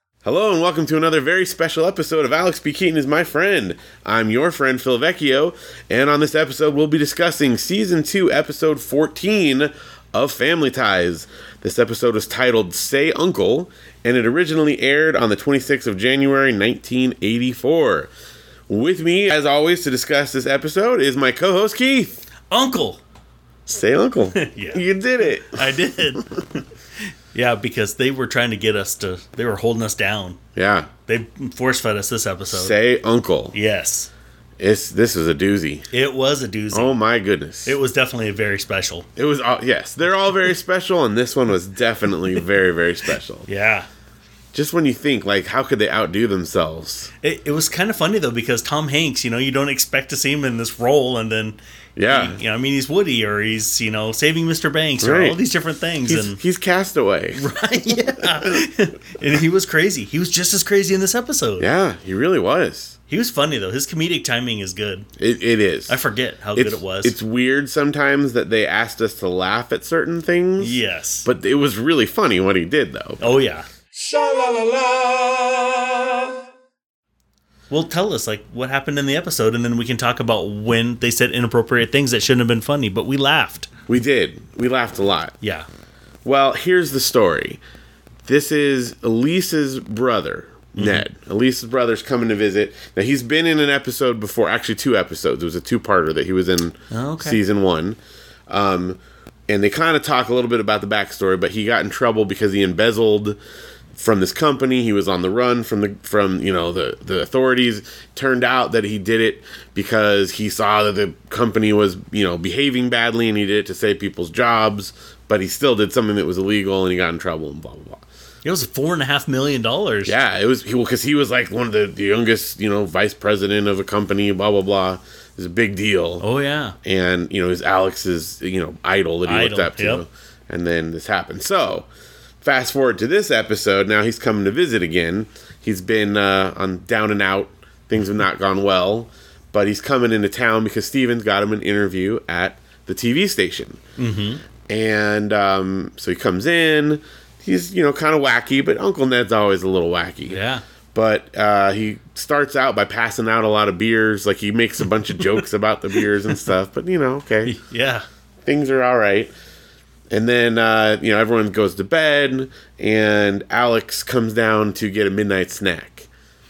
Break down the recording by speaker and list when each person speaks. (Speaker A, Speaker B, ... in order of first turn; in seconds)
Speaker A: 0.2-18.1, 18.7-22.2, 23.7-25.7, 30.6-30.9, 32.5-33.5, 34.6-35.9, 36.7-37.8, 39.2-43.5, 44.5-47.1, 52.0-52.4, 55.0-55.4, 56.1-57.5, 58.2-58.7, 61.6-63.0, 65.2-66.0, 66.5-73.3, 83.9-85.3, 86.2-87.6, 88.2-103.4, 104.0-118.0, 120.1-126.2, 126.8-131.9, 132.4-143.8, 144.7-150.4, 150.9-157.6, 158.4-159.3, 160.1-166.1
Speaker B: 22.5-23.0, 24.3-26.6, 27.3-30.4, 31.1-32.8, 33.5-34.1, 35.9-36.9, 37.7-39.1, 43.5-43.9, 47.2-56.4, 57.4-61.7, 63.1-65.1, 65.9-67.2, 70.6-71.3, 73.2-73.7, 77.7-83.7, 85.4-85.7, 90.8-91.0, 96.9-97.4, 118.4-120.2, 126.2-126.8, 129.3-130.0, 144.0-144.4, 150.3-150.6, 157.4-158.1
Speaker C: 73.9-76.4